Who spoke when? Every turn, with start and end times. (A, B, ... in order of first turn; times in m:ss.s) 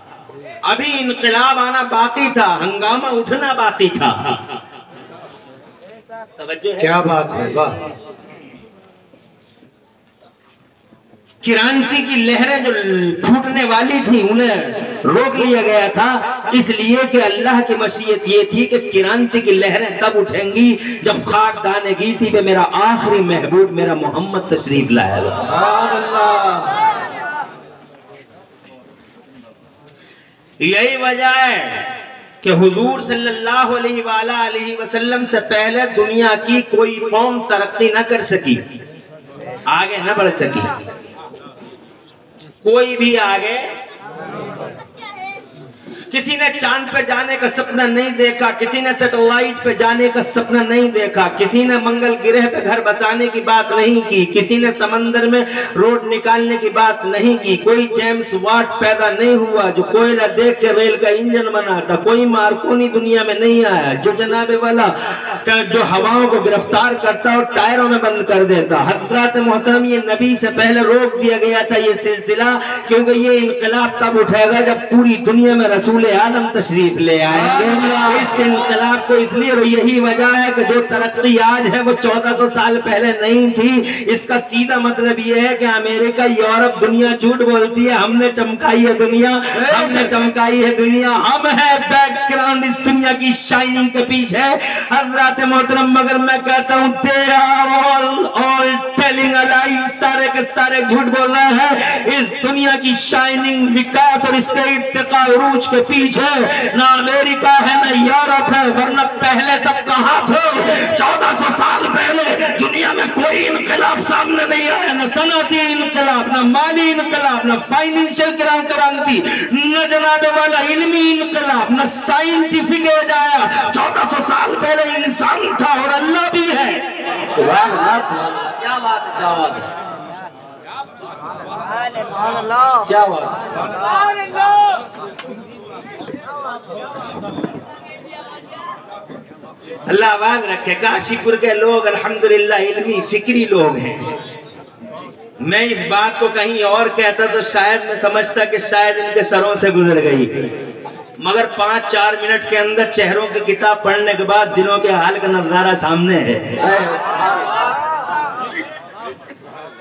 0:00.7-0:04.4 A
0:06.4-0:07.0 A
0:06.8-0:07.8 B
0:11.4-0:25.5 A
0:25.5-0:26.8 B
0:30.6-0:38.6 A
0:39.7-0:40.8 A
0:42.6-0:43.7 A
0:46.1-2:06.9 A
1:29.5-1:30.1 B
2:07.3-2:09.7 B
2:12.8-2:13.6 B
2:19.9-2:24.1 A
2:25.4-2:30.3 A
2:31.2-2:36.6 A
2:36.6-2:37.3 B